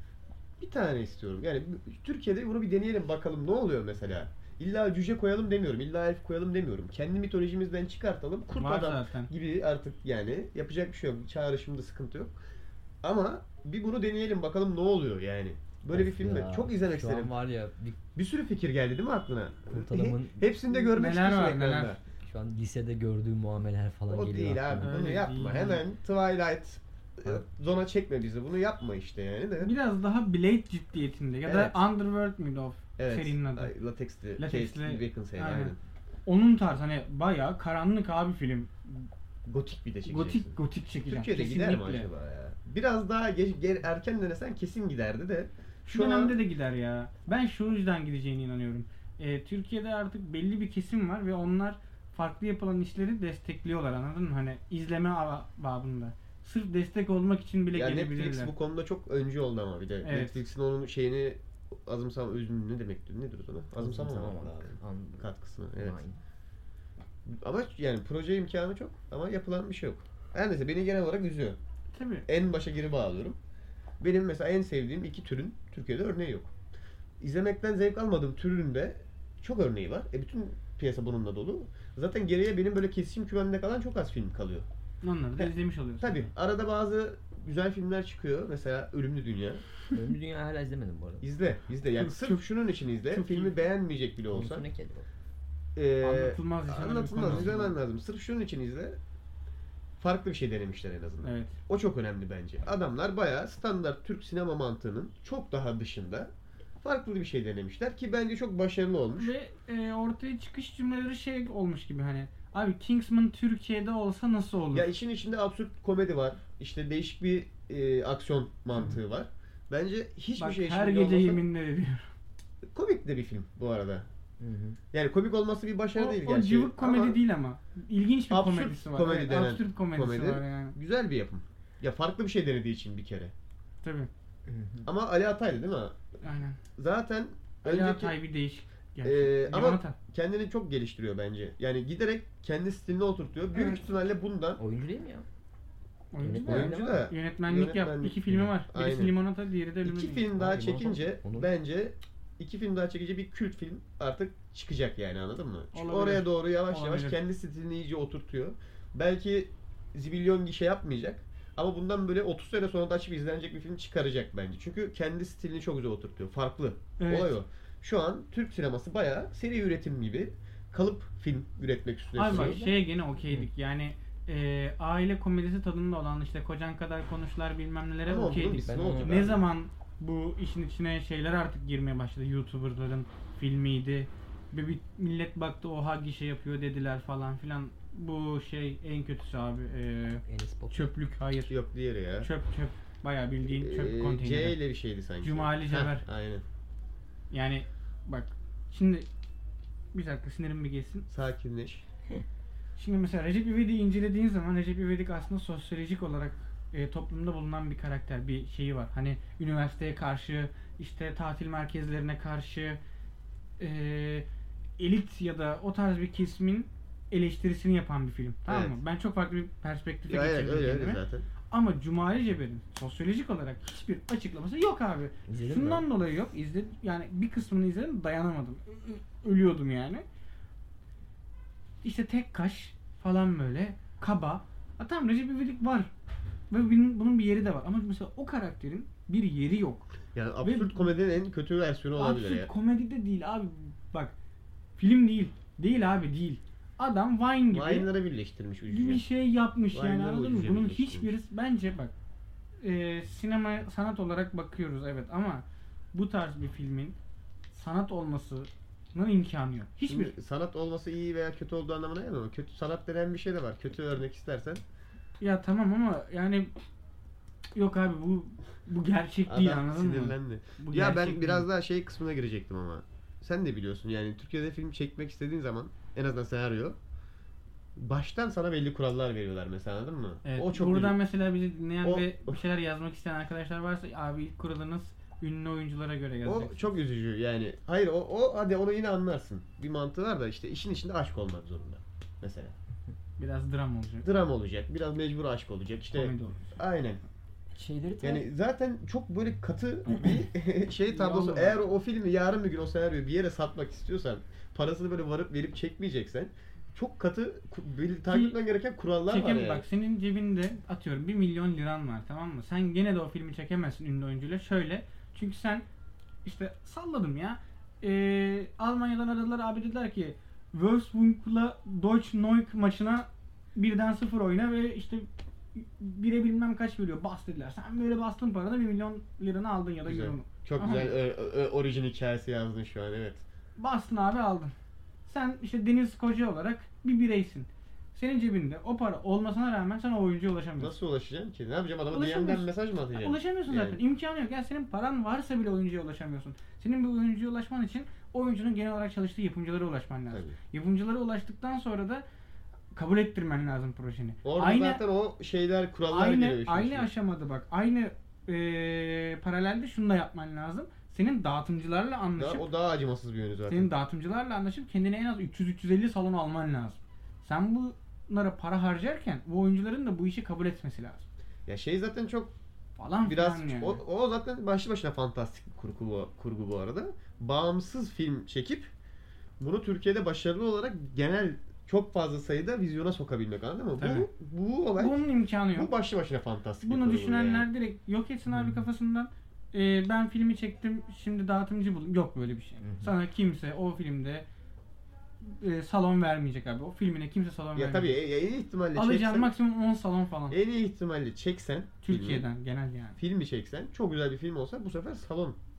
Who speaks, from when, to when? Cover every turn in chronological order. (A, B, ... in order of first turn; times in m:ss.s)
0:00.6-0:12.4 A
0:08.6-0:09.3 B
0:13.0-0:17.3 A
0:15.9-0:18.0 C
0:18.1-0:22.0 A
0:19.7-0:20.4 C
0:20.7-0:22.0 B
0:22.2-0:24.9 C
0:24.1-0:29.7 A
0:24.8-0:25.8 B
0:29.6-0:33.7 B
0:31.4-0:31.8 A
0:33.0-0:35.8 A
0:34.4-0:35.7 B
0:36.2-0:39.1 B
0:39.4-0:46.4 A
0:40.1-0:42.1 B
0:45.9-0:58.5 B
0:57.7-1:06.0 A
1:00.0-1:00.4 B
1:03.8-1:06.2 C
1:07.2-1:11.6 A
1:11.9-1:12.3 B
1:12.3-1:13.4 A
1:14.0-1:16.5 A
1:17.2-1:24.7 A
1:25.0-1:26.2 B
1:25.4-1:29.6 A
1:29.9-1:31.2 C
1:31.2-1:34.6 A
1:32.0-1:32.4 B
1:33.1-1:33.5 B
1:34.3-1:35.1 C
1:35.8-1:39.0 A
1:36.0-1:37.7 B
1:40.0-1:46.3 A
1:41.2-1:41.6 B
1:46.8-1:49.3 A
1:49.1-1:54.9 B
1:54.7-2:01.4 A
2:00.4-2:02.1 B
2:02.6-2:04.1 A
2:04.4-2:04.8 C
2:04.9-2:07.2 A
2:05.9-2:10.8 B
2:08.3-2:13.3 A
2:13.8-2:14.1 B
2:14.5-2:14.9 C
2:14.8-2:16.0 A
2:16.2-2:16.6 B
2:16.8-2:18.2 A
2:17.6-2:20.0 B
2:19.0-2:24.6 A
2:23.5-2:23.8 B
2:24.6-2:25.2 C
2:26.1-2:30.2 B
2:26.2-2:27.0 C
2:26.4-2:29.1 A
2:29.8-2:52.6 A
2:30.3-2:31.5 C
2:35.7-2:37.2 B
2:47.0-2:47.4 B
2:52.2-3:11.5 B
2:52.2-2:53.5 C
2:58.0-2:59.4 A
2:58.6-2:59.3 C
3:10.2-3:10.9 C
3:11.5-3:12.3 A
3:12.2-3:14.6 B
3:13.4-3:16.4 A
3:15.2-3:16.0 B
3:17.3-3:19.1 B
3:19.9-3:21.1 B
3:21.1-3:21.8 A
3:22.8-3:32.8 B
3:33.6-3:34.2 B
3:34.8-3:50.0 B
3:38.5-3:38.8 A
3:40.1-3:41.2 A
3:45.3-3:45.9 C
3:51.8-3:55.9 B
3:56.5-3:59.9 B
4:00.1-4:02.5 A
4:00.4-4:00.9 B
4:02.0-4:04.1 B
4:04.8-4:07.9 B
4:07.5-4:09.0 A
4:08.7-4:11.9 B
4:09.7-4:11.2 A
4:12.6-4:17.0 B
4:17.5-4:20.1 B
4:19.8-4:24.6 A
4:25.2-4:26.5 B
4:27.6-4:31.5 B
4:29.3-4:36.8 A
4:37.8-4:41.0 A
4:40.2-4:46.7 B
4:41.8-4:42.4 A
4:46.2-4:52.6 A
4:53.2-4:54.0 B
4:54.0-4:57.0 A
4:55.9-4:56.6 B
4:57.5-4:58.2 C
4:58.0-5:09.6 A
5:00.9-5:01.6 B
5:08.1-5:08.4 B
5:09.1-5:15.6 B
5:16.2-5:30.9 B
5:29.8-5:33.2 A
5:33.6-5:34.5 B
5:35.0-5:40.7 B
5:40.6-5:43.8 A
5:41.9-5:52.0 B
5:50.1-5:50.4 A
5:52.7-5:54.8 B
5:54.2-5:56.9 A
5:55.9-6:02.5 B
6:02.2-6:03.7 A
6:03.5-6:11.0 B
6:11.4-6:12.3 A
6:12.8-6:13.8 B
6:13.0-6:18.7 A
6:19.4-6:27.5 A
6:23.8-6:24.1 B
6:24.8-6:25.7 B
6:26.6-6:34.2 B
6:28.3-6:28.6 C
6:32.6-6:32.9 C
6:35.2-6:38.0 B
6:37.6-6:39.3 A
6:38.7-6:40.4 B
6:40.3-6:42.3 A
6:41.8-6:43.0 B
6:43.0-6:45.4 A